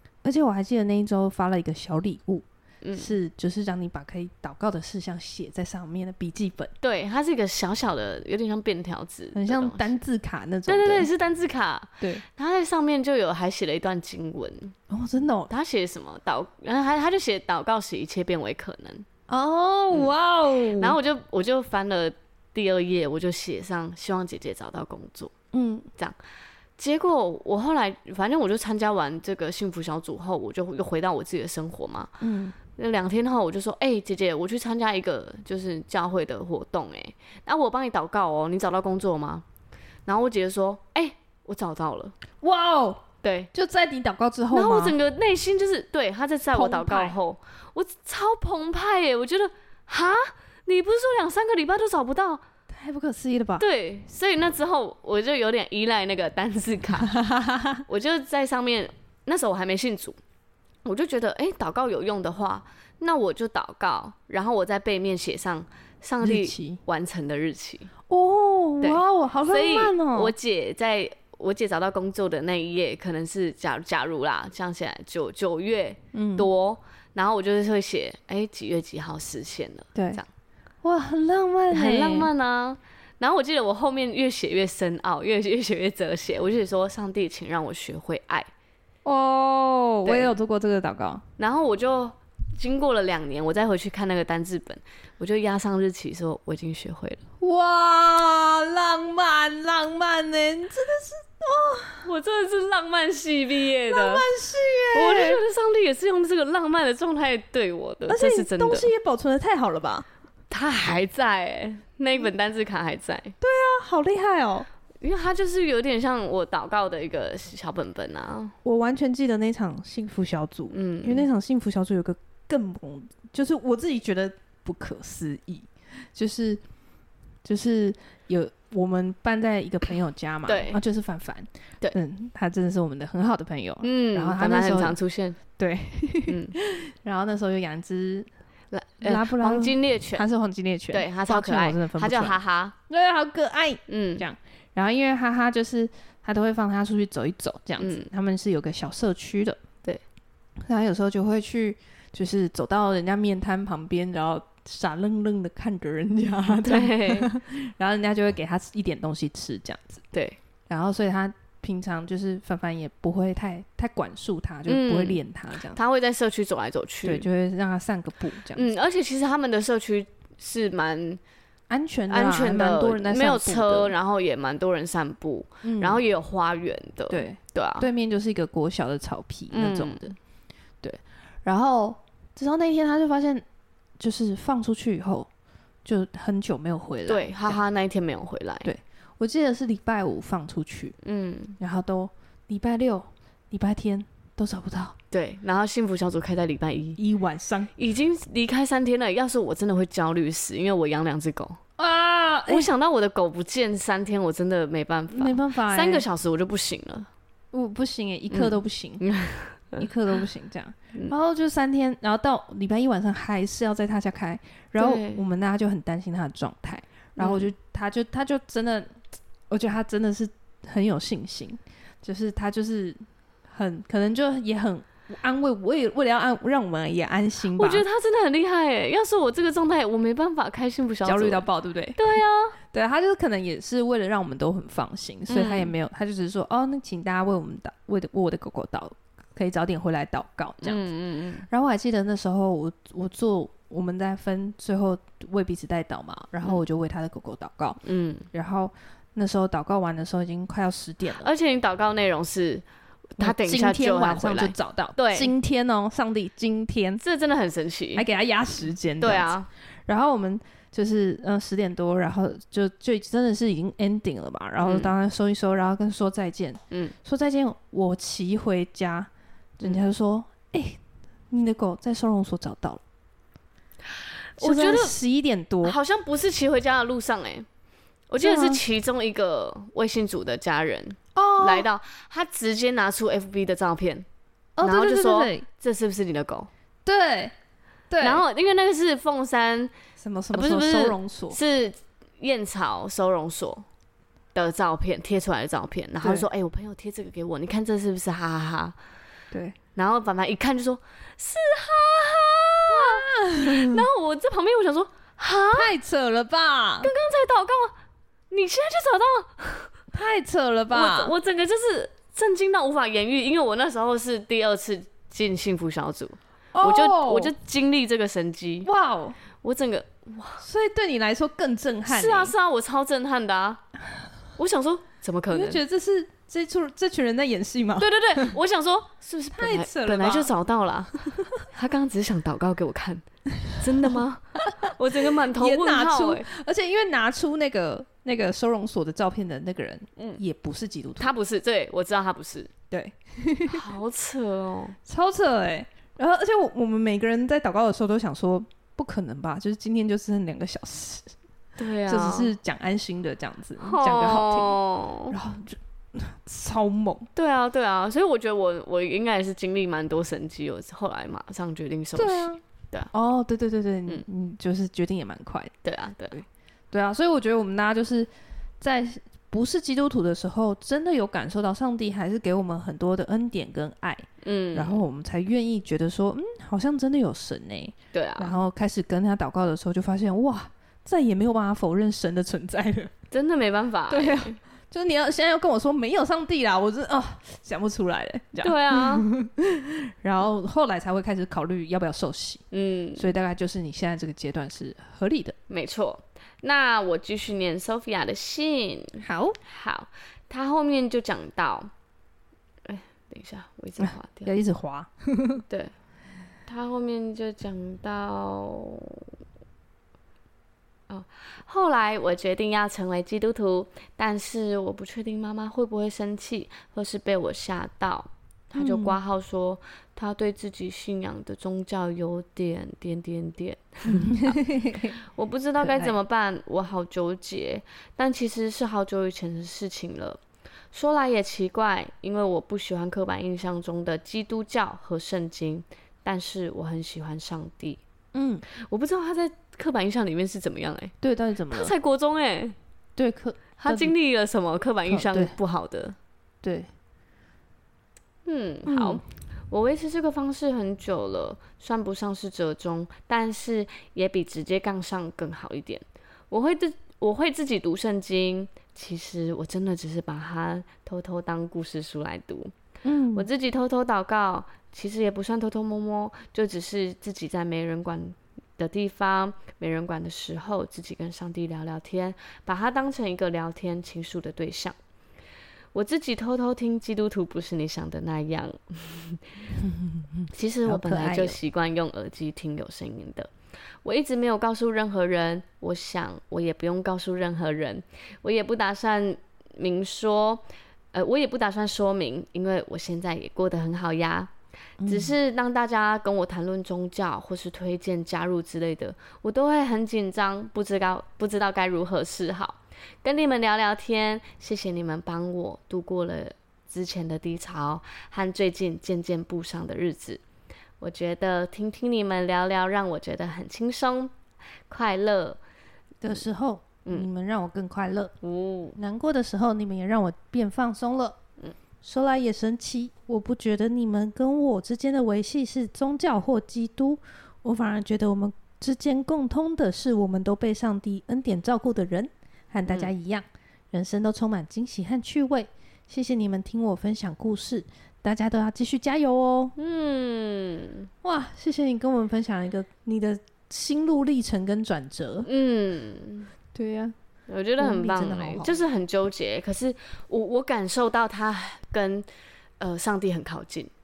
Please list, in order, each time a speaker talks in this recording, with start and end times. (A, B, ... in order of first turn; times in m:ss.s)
0:00.2-0:06.7 A
0:02.8-0:03.1 B
0:06.8-0:10.0 B
0:09.3-0:11.1 A
0:10.7-0:14.8 B
0:14.9-0:15.5 A
0:15.5-0:19.1 B
0:19.3-0:21.0 A
0:20.8-0:25.3 B
0:25.5-0:25.9 A
0:26.8-0:32.1 B
0:32.2-0:32.6 A
0:32.7-0:39.4 B
0:40.1-0:42.2 B
0:42.4-0:45.0 A
0:43.2-0:43.5 B
0:44.5-0:52.4 B
0:46.5-0:47.2 A
0:52.7-0:53.6 A
0:53.6-0:57.2 B
0:57.1-0:57.8 A
0:57.9-1:00.2 B
1:00.8-1:07.9 B
1:06.2-1:06.8 A
1:08.1-1:10.3 A
1:08.8-1:20.3 B
1:16.1-1:16.5 A
1:20.0-1:20.2 A
1:20.8-1:22.3 A
1:21.7-1:28.5 B
1:29.0-1:31.2 A
1:30.0-1:30.4 B
1:31.4-1:37.2 B
1:37.4-1:42.1 A
1:42.0-1:44.3 B
1:43.9-1:45.4 A
1:44.9-1:48.9 B
1:48.1-1:50.0 A
1:50.5-1:53.4 B
1:53.4-1:54.7 A
1:55.0-1:58.6 B
1:58.6-2:06.6 A
2:00.7-2:01.3 B
2:07.4-2:15.0 A
2:10.5-2:10.8 B
2:13.8-2:15.4 B
2:15.6-2:18.3 A
2:16.3-2:16.6 B
2:18.7-2:20.2 B
2:19.0-2:29.6 A
2:20.9-2:22.8 B
2:23.9-2:24.2 B
2:27.8-2:28.1 B
2:30.7-2:40.0 A
2:36.6-2:37.3 B
2:40.1-2:40.4 B
2:40.7-2:45.8 A
2:44.7-2:47.3 B
2:47.0-2:48.7 A
2:48.5-2:51.2 B
2:51.7-2:53.9 A
2:52.1-2:57.9 B
2:55.6-2:56.0 A
2:57.1-3:00.2 A
2:59.5-3:00.1 B
3:00.8-3:03.4 A
3:04.0-3:05.3 A
3:05.8-3:07.6 A
3:07.1-3:08.7 B
3:08.6-3:11.0 A
3:11.0-3:11.6 B
3:11.6-3:15.0 A
3:15.1-3:17.0 B
3:17.0-3:17.7 A
3:17.8-3:21.6 B
3:21.8-3:22.7 A
3:22.5-3:27.1 B
3:25.1-3:26.0 A
3:27.5-3:29.0 A
3:28.3-3:29.8 B
3:29.8-3:39.0 A
3:34.8-3:35.2 B
3:37.2-3:37.5 B
3:39.5-3:47.8 A
3:47.6-3:51.4 B
3:51.0-3:52.1 A
3:52.0-3:52.6 B
3:52.7-4:00.8 A
3:55.3-3:55.7 B
4:00.6-4:01.5 B
4:01.5-4:11.3 A
4:07.8-4:08.3 B
4:11.1-4:12.6 B
4:13.2-4:15.3 B
4:13.2-4:17.0 A
4:17.0-4:18.0 B
4:18.0-4:19.3 A
4:19.0-4:19.5 B
4:19.9-4:30.8 A
4:24.6-4:24.9 B
4:31.3-4:32.8 A
4:34.4-4:35.0 B
4:34.4-4:35.8 A
4:35.6-4:37.5 B
4:38.1-4:44.1 B
4:38.2-4:38.6 A
4:41.2-4:41.7 A
4:44.6-4:45.5 A
4:44.6-4:46.5 B
4:46.9-4:47.3 A
4:47.9-4:48.2 A
4:48.0-4:49.7 B
4:50.0-4:51.4 A
4:50.3-4:53.7 B
4:54.4-4:58.8 B
4:59.3-4:59.6 A
4:59.8-5:05.7 B
5:02.7-5:03.8 A
5:05.5-5:06.9 A
5:06.8-5:07.8 B
5:08.3-5:09.7 B
5:09.9-5:11.2 A
5:10.7-5:18.7 B
5:16.5-5:17.3 A
5:18.6-5:19.2 A
5:19.4-5:20.4 B
5:20.4-5:22.3 A
5:21.9-5:23.6 B
5:24.4-5:25.6 B
5:25.3-5:28.4 A
5:27.8-5:30.9 B
5:29.3-5:30.3 A
5:31.5-5:36.3 B
5:34.5-5:41.1 A
5:41.0-5:42.5 B
5:42.7-5:43.6 A
5:43.5-5:44.8 B
5:44.9-5:51.1 A
5:51.6-5:52.3 B
5:51.9-5:57.1 A
5:53.6-5:55.2 B
5:57.2-6:02.9 B
6:02.0-6:02.4 A
6:02.9-6:05.5 A
6:05.6-6:06.2 B
6:06.1-6:08.1 A
6:08.6-6:22.9 A
6:14.2-6:14.8 B
6:17.9-6:18.4 B
6:23.1-6:24.4 B
6:23.9-6:32.4 A
6:28.4-6:29.1 B
6:32.5-6:33.1 B
6:33.0-6:35.4 A
6:35.5-6:41.7 B
6:39.0-6:39.4 A
6:42.6-6:44.3 B
6:43.8-6:45.4 A
6:46.5-6:49.1 B
6:50.9-7:04.4 B
6:58.6-6:59.0 A
7:03.9-7:05.0 A
7:05.0-7:10.2 B
7:05.6-7:05.9 A
7:10.7-7:17.8 B
7:18.1-7:18.4 A
7:18.5-7:20.9 B
7:21.0-7:21.7 A
7:21.5-7:22.6 B
7:23.0-7:24.0 A
7:23.6-7:26.0 B
7:24.9-7:25.4 A
7:26.4-7:26.7 A
7:28.2-7:42.5 B
7:28.7-7:29.0 A
7:42.8-7:43.3 A
7:43.2-7:54.8 B
7:55.7-7:59.4 B
7:59.6-8:01.4 A
8:00.3-8:03.3 B
8:03.8-8:14.3 B
8:14.8-8:15.2 A
8:14.9-8:30.2 B
8:30.8-8:34.1 B
8:34.7-8:35.4 B
8:36.0-8:38.1 A
8:38.2-8:38.8 B
8:38.8-8:41.2 A
8:41.8-8:59.6 A
8:59.6-9:00.9 B
9:01.0-9:05.3 A
9:05.2-9:06.3 B
9:06.5-9:06.9 A
9:07.3-9:12.1 B
9:07.6-9:08.6 A
9:12.6-9:13.7 B